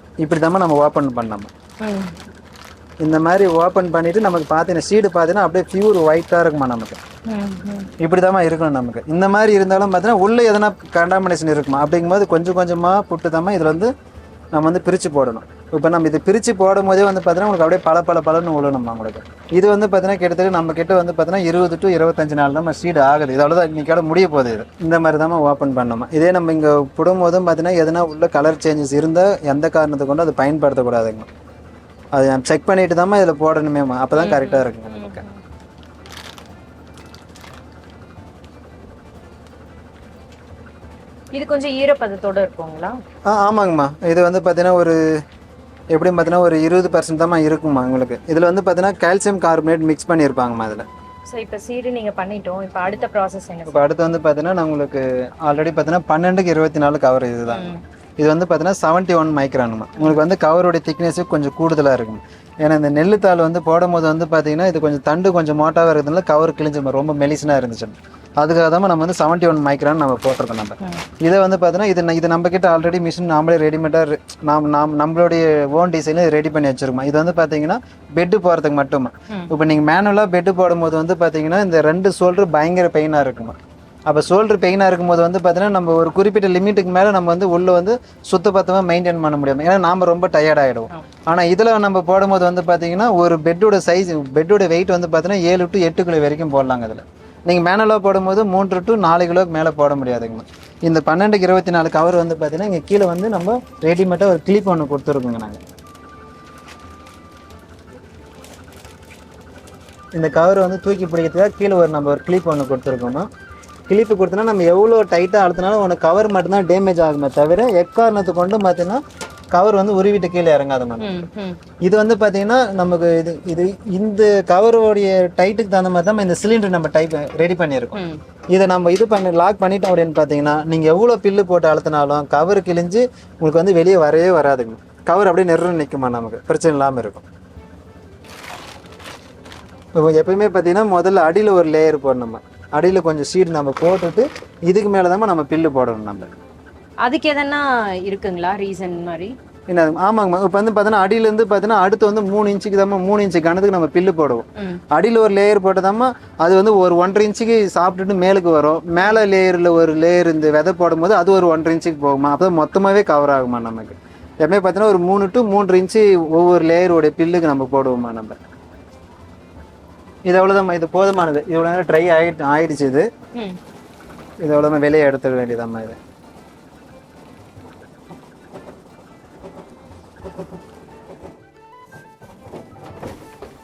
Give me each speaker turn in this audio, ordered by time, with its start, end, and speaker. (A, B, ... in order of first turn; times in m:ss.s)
0:00.2-0:01.5 A
0:01.8-0:02.1 B
0:03.0-0:07.0 A
0:07.3-0:07.9 B
0:08.0-0:13.9 A
0:14.5-0:31.3 A
0:32.2-0:35.2 A
0:34.2-0:35.3 B
0:41.3-0:43.0 B
0:43.3-0:45.0 A
0:45.9-0:50.9 A
0:51.3-0:53.9 B
0:53.7-1:45.6 A
0:57.5-0:57.8 B
1:50.2-1:53.3 A
1:53.9-1:59.0 A
1:59.5-2:01.1 A
2:01.0-2:01.6 B
2:01.8-2:08.0 A
2:08.0-2:08.2 B
2:08.5-2:17.2 A
2:20.0-2:26.3 A
2:27.0-2:29.4 B
2:29.7-2:48.4 A
2:50.3-2:53.1 A
2:54.4-2:56.0 A